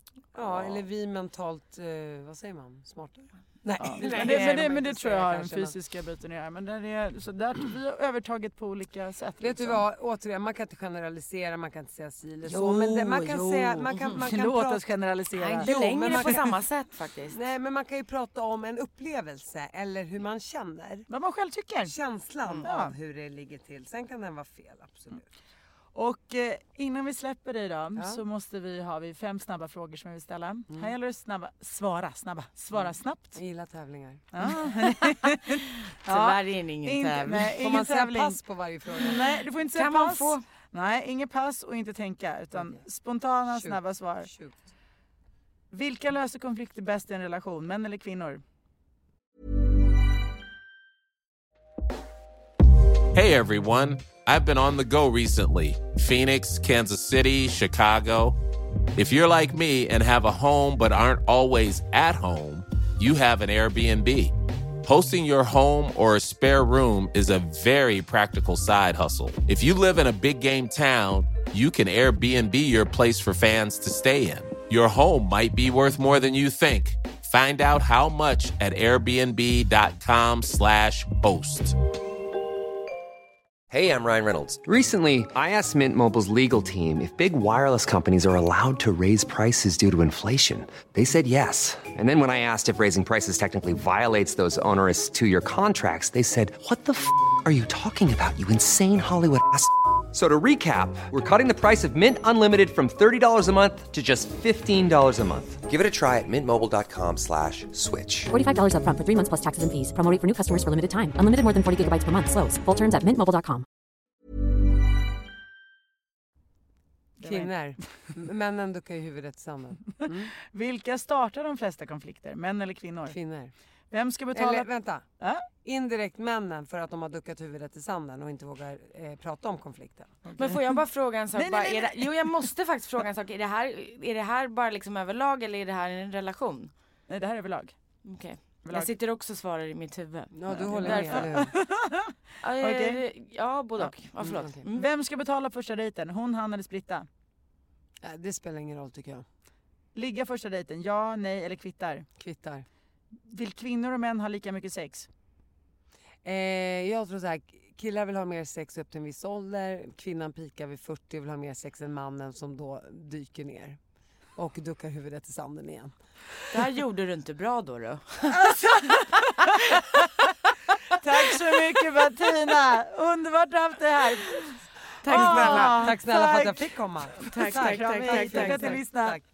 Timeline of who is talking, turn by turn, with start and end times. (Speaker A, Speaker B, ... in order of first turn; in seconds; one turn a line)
Speaker A: 0.3-5.7
Speaker B: 0.5-0.8
Speaker C: 3.8-9.8
Speaker B: 4.0-4.6
Speaker A: 9.4-14.9
Speaker C: 12.4-16.4
Speaker B: 15.4-17.4
Speaker A: 15.6-16.6
Speaker A: 17.3-21.1
Speaker C: 21.1-21.9
Speaker A: 21.9-25.2
Speaker C: 22.6-22.9
Speaker C: 25.9-33.4
Speaker A: 27.9-28.2
Speaker A: 32.7-34.2
Speaker C: 34.3-38.4
Speaker B: 35.1-35.4
Speaker B: 36.0-37.5
Speaker A: 37.3-39.2
Speaker C: 39.0-44.3
Speaker B: 39.6-40.4
Speaker A: 43.5-44.6
Speaker C: 45.7-48.4
Speaker D: 53.1-58.4
Speaker D: 58.9-81.8
Speaker E: 83.7-108.3
Speaker F: 108.3-113.7
Speaker C: 117.2-117.5
Speaker A: 117.2-120.3
Speaker C: 120.0-123.2
Speaker A: 123.1-123.5
Speaker C: 123.9-125.5
Speaker A: 124.3-125.0
Speaker A: 125.6-130.1
Speaker C: 130.2-130.8
Speaker B: 130.4-136.7
Speaker C: 131.3-132.3
Speaker C: 137.1-137.7
Speaker B: 138.0-141.3
Speaker C: 138.6-138.9
Speaker A: 140.3-141.5
Speaker C: 140.6-143.0
Speaker B: 142.4-144.9
Speaker A: 144.2-144.6
Speaker C: 144.7-147.1
Speaker A: 148.0-149.2
Speaker C: 149.9-152.1
Speaker A: 152.2-152.6
Speaker C: 153.3-155.1
Speaker A: 156.2-163.8
Speaker A: 164.3-165.9
Speaker B: 166.5-170.1
Speaker C: 168.3-170.1
Speaker C: 170.9-179.2
Speaker B: 175.0-175.9
Speaker A: 175.1-179.2
Speaker B: 177.2-178.8